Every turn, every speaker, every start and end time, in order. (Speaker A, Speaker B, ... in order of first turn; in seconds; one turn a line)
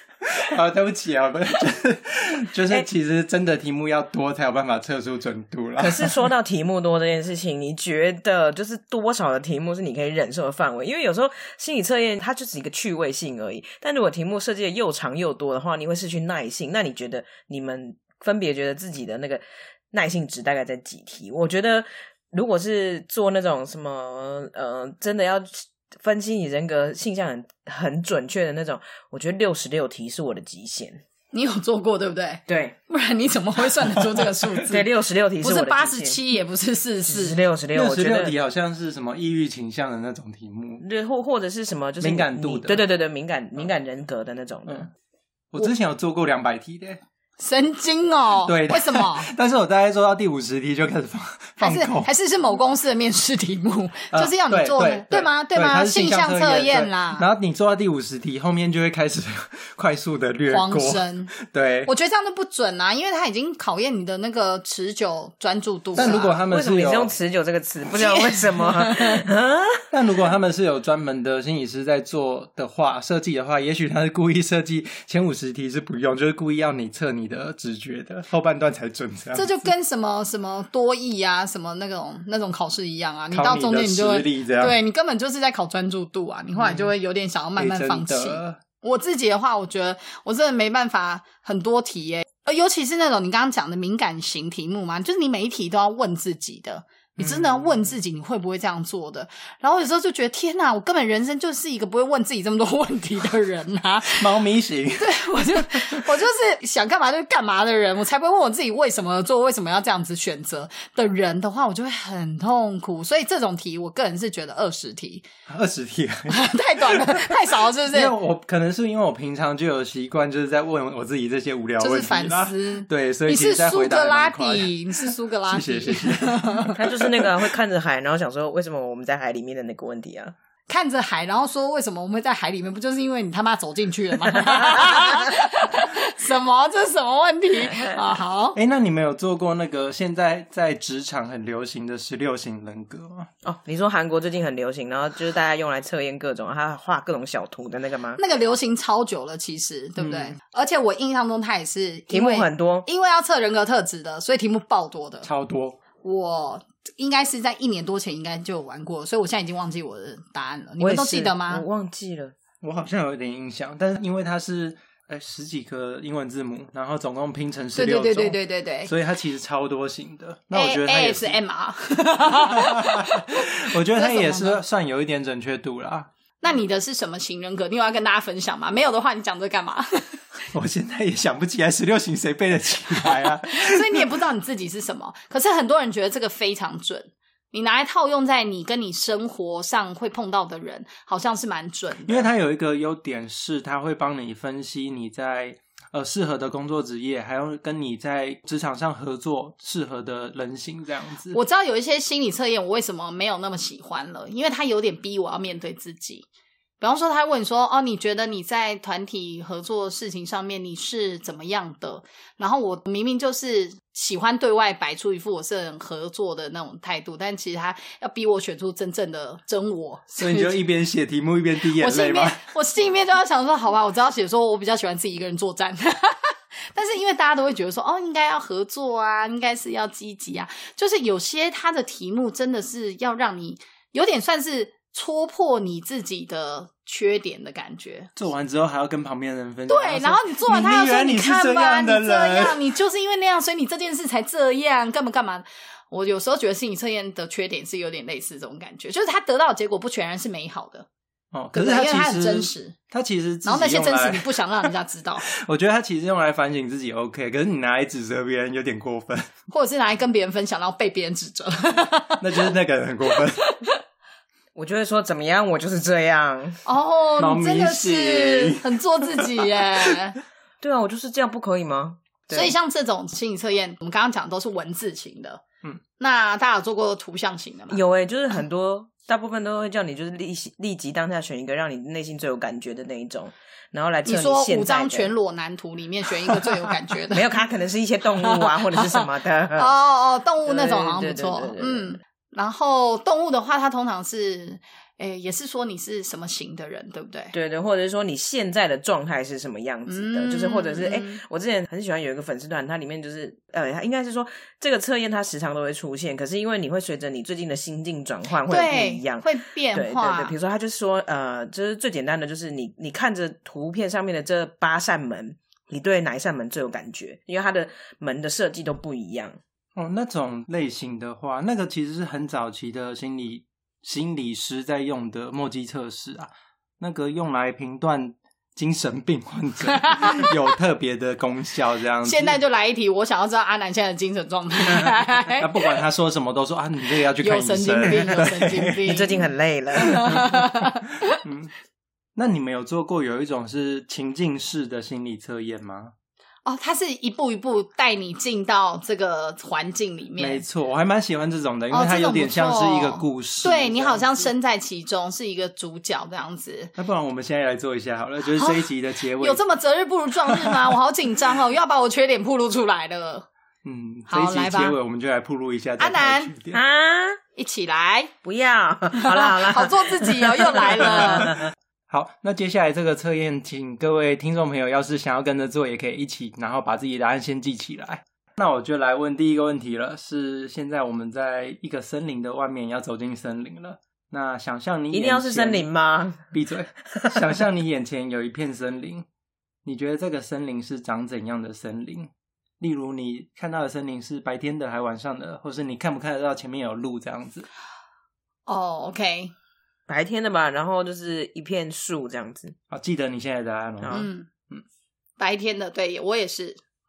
Speaker A: 0.3-6.3
Speaker B: 5.8-31.0
Speaker C: 31.3-34.8
Speaker B: 32.5-32.8
Speaker B: 34.7-36.2
Speaker C: 35.4-37.4
Speaker B: 37.0-38.3
Speaker A: 37.7-40.8
Speaker B: 40.8-44.9
Speaker A: 42.0-42.8
Speaker A: 45.5-47.0
Speaker C: 47.4-49.3
Speaker A: 48.4-52.1
Speaker C: 51.6-57.2
Speaker A: 54.1-61.9
Speaker C: 60.5-66.4
Speaker A: 65.9-67.1
Speaker B: 66.0-69.8
Speaker C: 67.9-69.2
Speaker A: 69.9-79.7
Speaker C: 79.3-104.4
Speaker A: 83.3-84.8
Speaker A: 86.5-86.9
Speaker A: 87.6-88.6
Speaker A: 97.2-97.9
Speaker A: 104.1-106.0
Speaker C: 105.0-115.2
Speaker A: 115.5-127.1
Speaker C: 116.3-118.2
Speaker C: 121.8-126.8
Speaker B: 126.8-130.3
Speaker C: 130.7-138.6
Speaker B: 137.7-138.0
Speaker A: 138.5-143.3
Speaker B: 143.4-148.2
Speaker C: 148.2-155.3
Speaker A: 150.0-150.3
Speaker B: 152.1-152.8
Speaker A: 155.2-155.8
Speaker C: 156.0-161.6
Speaker B: 160.8-162.3
Speaker A: 162.6-171.3
Speaker C: 167.7-168.9
Speaker C: 170.5-174.6
Speaker A: 172.3-176.1
Speaker C: 176.4-180.2
Speaker A: 180.5-184.1
Speaker C: 183.0-192.3
Speaker A: 192.0-201.4
Speaker C: 201.3-206.2
Speaker C: 206.8-220.5
Speaker A: 220.2-222.4
Speaker C: 221.7-238.1
Speaker A: 238.2-242.7
Speaker C: 239.7-250.9
Speaker A: 251.3-254.7
Speaker C: 251.5-252.8
Speaker C: 253.4-255.2
Speaker A: 255.2-259.3
Speaker C: 259.5-262.4
Speaker A: 262.2-263.4
Speaker C: 263.1-263.8
Speaker B: 264.5-266.6
Speaker C: 266.6-270.2
Speaker A: 267.2-269.6
Speaker B: 270.6-272.5
Speaker C: 272.3-275.4
Speaker C: 276.0-277.8
Speaker B: 277.7-285.1
Speaker C: 284.0-287.4
Speaker B: 287.1-289.7
Speaker C: 288.1-289.0
Speaker C: 289.5-297.3
Speaker B: 290.4-292.0
Speaker B: 297.3-319.4
Speaker C: 299.9-301.2
Speaker C: 308.4-310.4
Speaker A: 319.8-332.4
Speaker C: 332.0-335.5
Speaker A: 335.3-338.8
Speaker C: 337.0-341.1
Speaker B: 338.8-340.0
Speaker A: 339.8-341.5
Speaker A: 342.1-345.9
Speaker C: 346.4-350.4
Speaker A: 350.2-354.3
Speaker C: 351.7-356.7
Speaker A: 356.8-359.4
Speaker C: 358.2-363.3
Speaker A: 360.3-360.6
Speaker A: 363.6-366.6
Speaker C: 364.1-364.8
Speaker C: 365.8-366.3
Speaker B: 366.5-367.2
Speaker C: 367.4-368.1
Speaker B: 368.2-371.2
Speaker C: 368.9-371.3
Speaker A: 371.9-385.7
Speaker B: 384.9-386.3
Speaker A: 386.3-389.1
Speaker A: 389.6-397.5
Speaker C: 398.5-399.3
Speaker B: 399.9-402.5
Speaker A: 402.7-404.6
Speaker B: 403.8-404.1
Speaker C: 403.9-404.3
Speaker C: 405.2-406.6